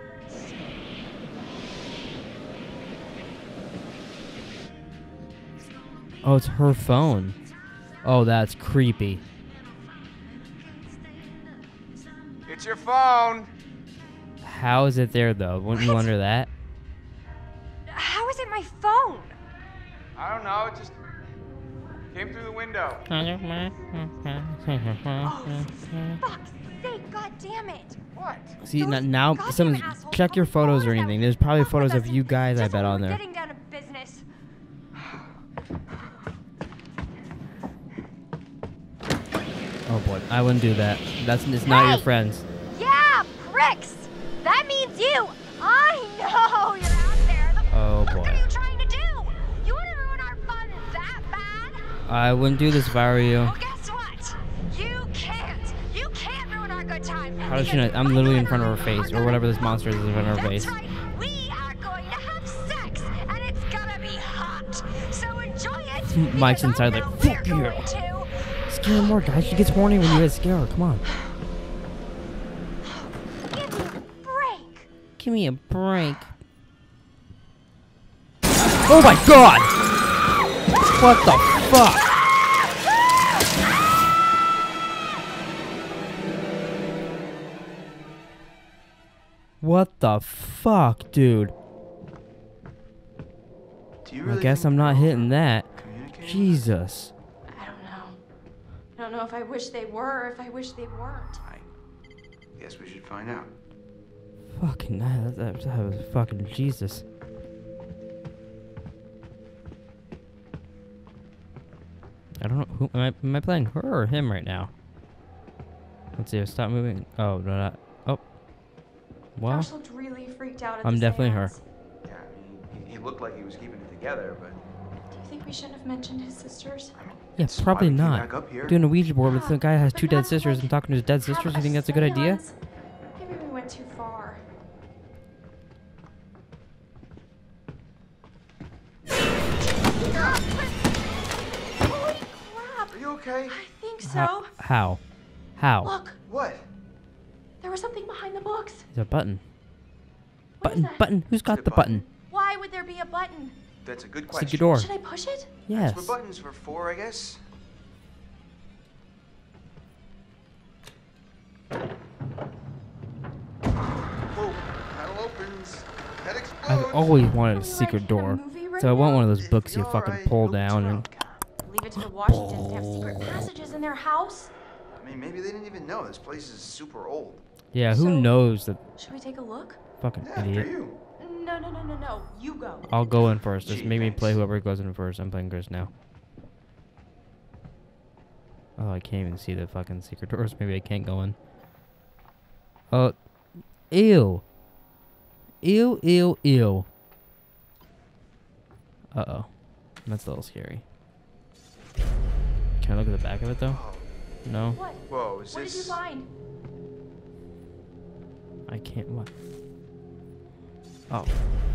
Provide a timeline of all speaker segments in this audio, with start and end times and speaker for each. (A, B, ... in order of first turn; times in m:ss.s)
0:06.2-0:07.4 A
0:08.0-0:09.2 A
0:12.4-0:13.5 B
0:14.4-0:16.5 A
0:15.8-0:16.1 C
0:17.9-0:19.4 C
0:20.2-0:21.0 B
0:22.1-0:23.0 B
0:23.1-0:26.2 A
0:25.2-0:28.0 C
0:28.1-0:28.6 B
0:28.6-0:33.2 A
0:28.7-0:34.2 C
0:39.9-0:42.4 A
0:41.6-0:42.1 C
0:42.7-0:51.9 C
0:47.7-0:48.4 A
0:52.0-0:53.5 A
0:53.4-1:10.2 C
0:57.4-1:00.7 A
1:06.1-1:07.8 A
1:08.7-1:11.0 A
1:12.8-1:14.9 C
1:15.2-1:16.3 A
1:18.9-1:19.7 A
1:20.9-1:22.0 A
1:29.6-1:31.5 A
1:34.0-1:36.7 D
1:34.2-1:35.7 A
1:36.2-1:37.1 A
1:37.5-1:38.2 E
1:39.0-1:41.4 E
1:41.4-1:41.7 D
1:42.6-1:43.5 D
1:44.5-1:47.0 A
1:52.4-1:54.7 A
1:56.2-1:58.2 A
1:59.4-1:59.7 A
1:59.5-2:01.6 E
2:00.8-2:01.5 A
2:02.0-2:04.6 D
2:05.1-2:06.9 E
2:07.0-2:08.8 D
2:07.4-2:12.4 A
2:09.2-2:12.5 E
2:13.1-2:14.4 E
2:20.1-2:20.8 E
2:21.8-2:24.5 E
2:22.9-2:23.6 D
2:24.0-2:25.0 A
2:25.6-2:25.9 A
2:25.8-2:26.2 E
2:26.3-2:26.7 D
2:27.6-2:28.9 E
2:28.9-2:29.4 A
2:30.6-2:31.0 E
2:30.6-2:32.0 A
2:31.4-2:32.0 D
2:32.2-2:33.6 E
2:33.8-2:34.8 D
2:34.3-2:34.9 A
2:34.7-2:35.6 E
2:35.7-2:36.1 A
2:35.7-2:37.4 D
2:44.3-2:47.0 D
2:46.7-2:51.1 A
2:47.3-2:49.3 E
2:49.4-2:51.4 D
2:51.6-2:54.5 E
2:52.2-2:53.3 A
2:54.9-2:57.4 D
2:57.7-2:58.8 A
2:57.9-2:58.3 E
2:59.0-2:59.8 E
3:00.0-3:00.7 A
3:00.2-3:01.0 D
3:01.2-3:02.9 E
3:02.9-3:05.9 A
3:03.6-3:04.4 D
3:08.8-3:11.4 A
3:13.9-3:14.4 A
3:15.6-3:16.9 A
3:19.1-3:19.5 A
3:20.0-3:20.8 A
3:22.8-3:23.8 A
3:23.7-3:24.1 D
3:24.4-3:24.8 A
3:24.7-3:26.3 E
3:25.1-3:26.0 D
3:28.7-3:29.3 A
3:31.1-3:31.4 A